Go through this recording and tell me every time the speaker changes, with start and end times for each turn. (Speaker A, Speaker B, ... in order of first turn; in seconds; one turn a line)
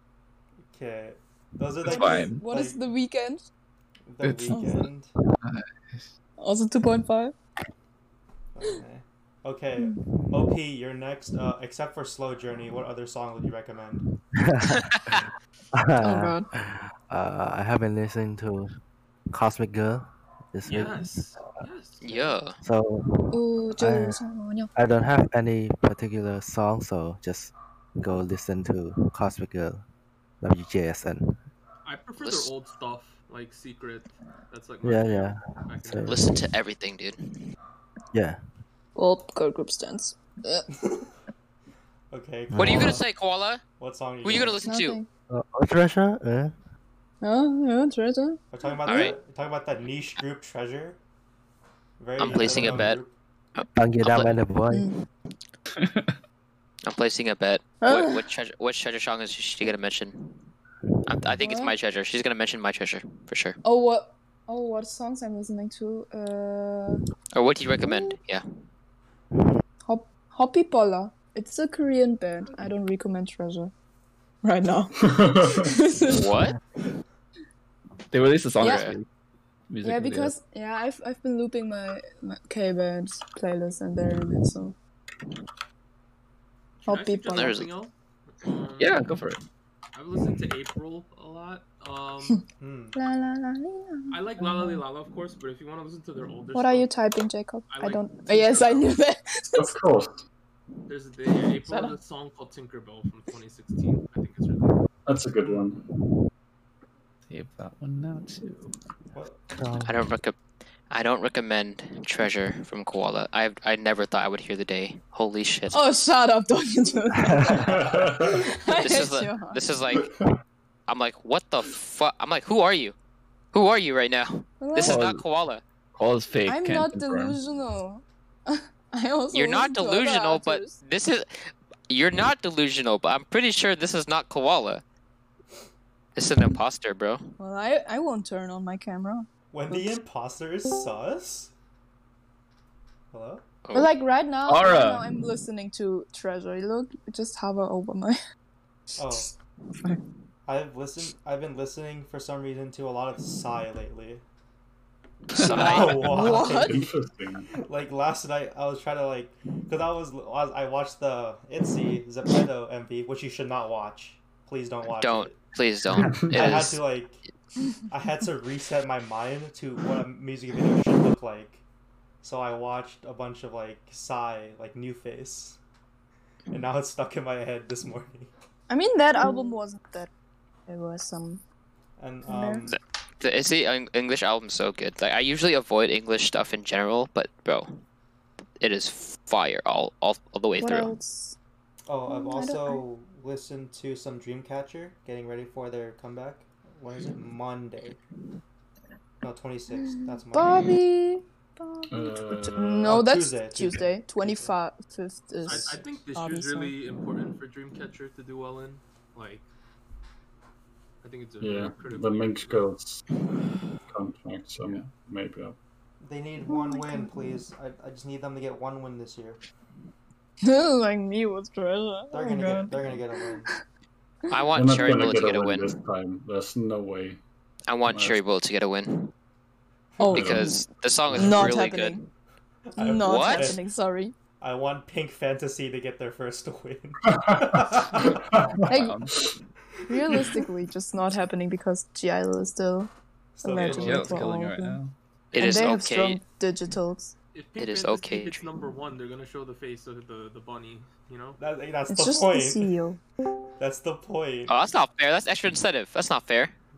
Speaker A: 0.7-2.8
Speaker B: 1.8-3.5
Speaker C: 1.8-2.4
Speaker A: 4.1-5.1
Speaker C: 4.2-4.7
Speaker B: 4.5-4.9
Speaker C: 5.4-6.0
Speaker B: 6.4-7.3
Speaker A: 8.5-14.1
Speaker B: 9.8-10.0
Speaker D: 14.4-18.7
Speaker E: 14.7-15.2
Speaker B: 16.0-16.5
Speaker D: 19.3-21.6
Speaker F: 20.6-22.4
Speaker E: 22.0-22.6
Speaker D: 22.6-24.2
Speaker B: 23.3-24.7
Speaker D: 24.7-29.8
Speaker D: 30.4-31.4
Speaker F: 31.8-36.3
Speaker E: 32.2-32.5
Speaker D: 34.8-36.3
Speaker E: 36.1-37.2
Speaker D: 38.1-38.4
Speaker B: 39.0-40.6
Speaker A: 40.7-41.1
Speaker A: 42.1-43.0
Speaker D: 42.5-43.0
Speaker E: 42.5-43.6
Speaker A: 43.8-44.6
Speaker E: 44.2-45.0
Speaker B: 44.6-45.1
Speaker D: 45.3-46.6
Speaker B: 47.2-48.4
Speaker A: 48.5-51.0
Speaker E: 48.9-49.1
Speaker A: 52.0-53.1
Speaker E: 52.2-53.0
Speaker D: 52.3-52.8
Speaker E: 53.5-54.3
Speaker D: 53.8-54.9
Speaker C: 55.8-56.2
Speaker E: 56.9-60.5
Speaker B: 57.8-58.3
Speaker E: 61.0-63.6
Speaker B: 61.4-61.7
Speaker B: 63.6-67.0
Speaker E: 67.3-68.4
Speaker B: 67.8-68.2
Speaker B: 69.8-73.7
Speaker B: 74.4-76.3
Speaker G: 75.1-75.7
Speaker E: 76.0-76.5
Speaker C: 78.1-79.0
Speaker B: 78.6-78.9
Speaker E: 78.6-78.9
Speaker C: 79.7-80.3
Speaker B: 79.8-84.7
Speaker F: 86.8-89.2
Speaker B: 86.8-87.7
Speaker E: 87.3-87.7
Speaker C: 88.8-89.4
Speaker F: 89.9-92.4
Speaker A: 92.6-93.0
Speaker B: 92.9-94.8
Speaker F: 94.1-96.9
Speaker B: 96.5-99.7
Speaker F: 97.7-98.9
Speaker G: 99.5-100.2
Speaker F: 100.9-104.8
Speaker B: 101.6-102.0
Speaker G: 105.0-105.8
Speaker A: 105.4-105.7
Speaker C: 107.3-108.7
Speaker A: 109.1-109.5
Speaker D: 109.5-110.0
Speaker E: 109.8-115.8
Speaker B: 115.7-117.8
Speaker D: 117.2-117.9
Speaker G: 117.6-118.5
Speaker B: 118.3-119.6
Speaker E: 118.8-120.0
Speaker E: 120.9-122.9
Speaker E: 123.5-125.6
Speaker B: 124.6-125.1
Speaker C: 124.8-125.2
Speaker C: 125.9-127.4
Speaker B: 126.5-130.8
Speaker E: 129.3-134.8
Speaker E: 136.2-137.2
Speaker B: 137.4-139.9
Speaker A: 139.5-141.5
Speaker A: 143.1-143.4
Speaker E: 143.6-143.9
Speaker B: 143.7-148.2
Speaker C: 144.4-145.1
Speaker A: 149.0-149.3
Speaker A: 150.4-154.2
Speaker E: 155.3-156.1
Speaker A: 155.4-156.9
Speaker B: 155.5-156.8
Speaker G: 156.0-157.5
Speaker A: 157.5-165.4
Speaker E: 165.0-166.8
Speaker G: 165.9-166.6
Speaker A: 166.2-167.2
Speaker A: 167.9-171.6
Speaker A: 172.2-175.6
Speaker A: 176.5-178.3
Speaker B: 178.7-180.1
Speaker B: 180.7-181.4
Speaker A: 182.0-182.8
Speaker B: 182.2-182.7
Speaker E: 182.7-187.8
Speaker E: 188.6-190.9
Speaker B: 190.6-191.3
Speaker A: 191.9-198.0
Speaker B: 192.1-192.8
Speaker A: 199.2-200.7
Speaker B: 199.7-206.8
Speaker G: 201.9-202.9
Speaker A: 202.8-204.6
Speaker F: 205.4-209.5
Speaker A: 205.5-205.8
Speaker F: 211.0-212.6
Speaker G: 211.4-213.0
Speaker G: 213.9-215.6
Speaker A: 216.0-219.4
Speaker B: 216.5-217.4
Speaker B: 220.4-223.6
Speaker A: 222.1-223.5
Speaker E: 224.3-225.7
Speaker G: 224.5-227.2
Speaker E: 227.7-229.1
Speaker G: 227.9-228.2
Speaker B: 230.0-232.1
Speaker E: 230.1-232.0
Speaker A: 232.7-233.6
Speaker B: 232.8-234.1
Speaker E: 233.0-233.5
Speaker A: 234.4-238.2
Speaker G: 237.1-238.5
Speaker C: 238.6-239.2
Speaker B: 238.7-239.0
Speaker B: 239.9-244.8
Speaker A: 239.9-240.4
Speaker A: 243.4-244.3
Speaker C: 243.5-244.9
Speaker E: 245.3-246.2
Speaker F: 245.3-245.7
Speaker B: 245.3-247.1
Speaker F: 247.3-251.4
Speaker E: 247.6-248.5
Speaker A: 251.4-252.7
Speaker B: 251.9-253.0
Speaker A: 253.6-254.6
Speaker E: 254.5-256.5